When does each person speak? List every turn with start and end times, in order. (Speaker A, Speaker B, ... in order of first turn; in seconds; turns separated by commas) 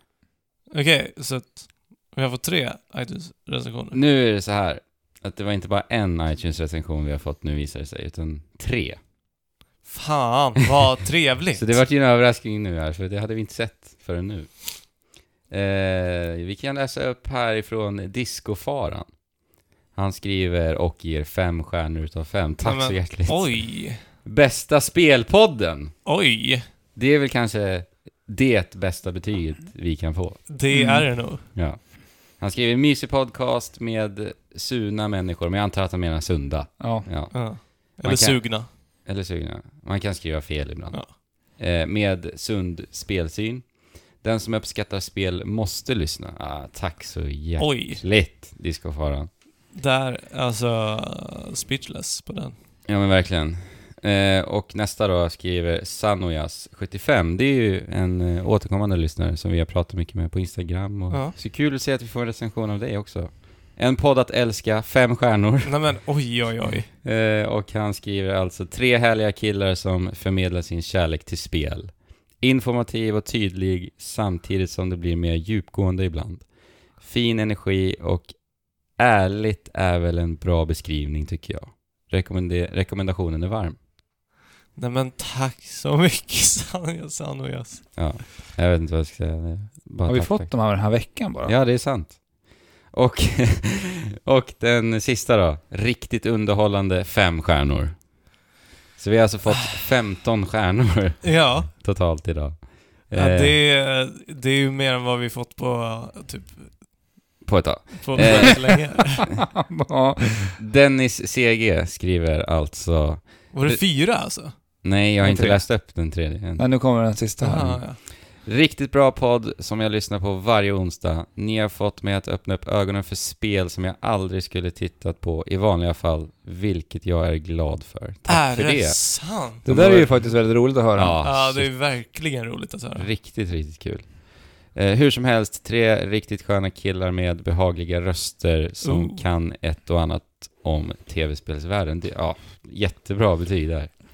Speaker A: 0.7-4.0, Speaker B: 3.9-9.0, Speaker A: 9.8-11.8, Speaker B: 11.5-19.3, Speaker B: 19.9-26.0, Speaker A: 22.6-24.1, Speaker A: 26.0-26.7, Speaker B: 26.9-30.5, Speaker A: 30.5-31.5, Speaker C: 30.7-31.1, Speaker B: 31.4-49.3, Speaker C: 36.8-37.1, Speaker A: 37.3-38.7, Speaker A: 47.6-48.0, Speaker A: 49.7-52.6, Speaker B: 52.8-66.1, Speaker A: 61.1-61.4, Speaker A: 65.6-66.9, Speaker B: 67.0-83.8, Speaker A: 84.7-88.2, Speaker B: 87.9-98.4, Speaker C: 90.1-91.6, Speaker B: 99.0-103.6, Speaker A: 101.2-101.7, Speaker A: 103.1-106.9, Speaker B: 107.4-109.2, Speaker A: 108.0-109.3, Speaker C: 108.2-108.7, Speaker C: 109.5-110.6, Speaker B: 110.6-116.8, Speaker A: 113.5-114.6, Speaker C: 115.2-117.8, Speaker A: 117.4-118.0, Speaker B: 118.0-130.2, Speaker A: 128.2-130.4, Speaker C: 129.6-131.2, Speaker B: 130.9-132.3, Speaker A: 131.2-133.1, Speaker B: 132.9-143.9, Speaker A: 138.8-139.2